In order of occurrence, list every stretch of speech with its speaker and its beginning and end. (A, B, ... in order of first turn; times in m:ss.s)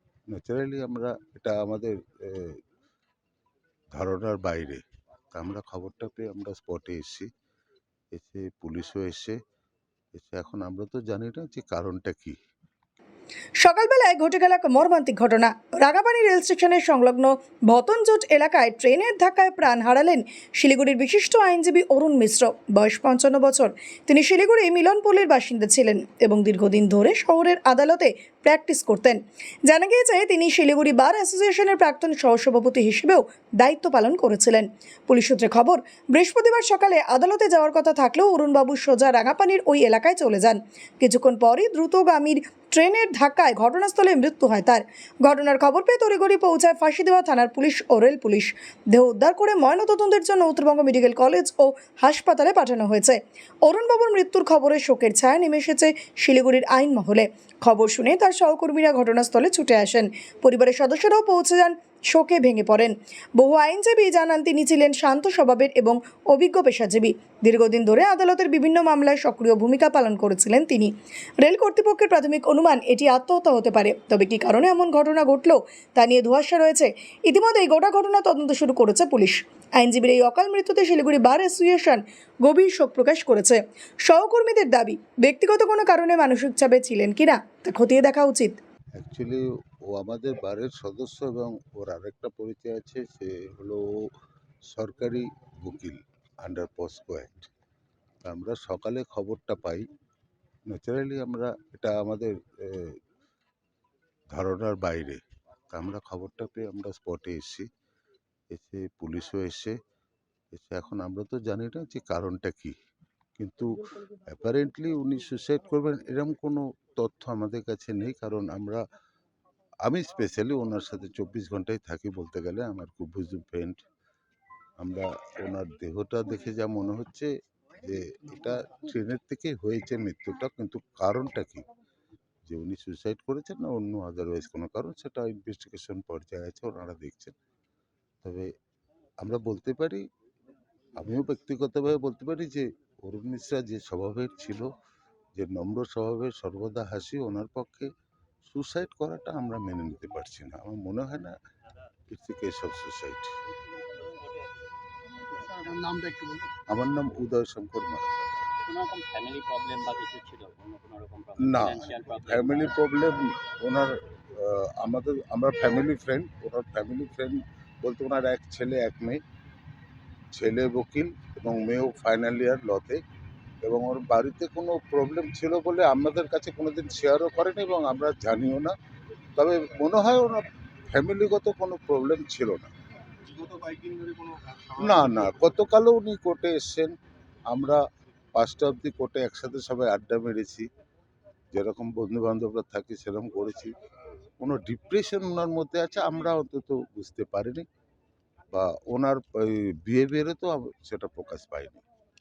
0:00.3-0:02.6 A
0:03.9-0:04.8 A
0:05.3-0:07.3 A
0:08.1-0:09.4 A
0:10.2-0:12.4 A
0:13.6-1:28.6 B
1:29.0-1:33.8 A
1:34.7-1:37.5 A
1:38.2-1:39.8 A
1:40.7-1:43.0 A
1:44.3-1:47.7 A
1:48.5-1:49.8 A
1:50.5-1:52.8 A
1:53.4-1:58.8 A
1:59.8-2:03.8 A
2:04.8-2:11.6 A
2:12.5-2:17.3 A
2:18.2-2:18.5 A
2:19.2-2:20.0 A
2:21.0-2:24.7 A
2:25.4-2:27.9 A
2:28.5-2:31.3 A
2:32.1-2:33.3 A
2:35.4-2:36.5 C
2:36.7-2:38.5 A
2:38.7-2:42.9 D
2:41.4-2:49.2 A
2:50.3-2:53.0 A
2:53.6-2:58.7 A
2:59.4-3:02.7 A
3:03.3-3:05.4 C
3:04.8-3:06.9 A
3:07.5-3:07.8 A
3:08.4-3:10.7 A
3:11.5-3:13.7 A
3:14.4-3:17.6 A
3:18.5-3:21.8 A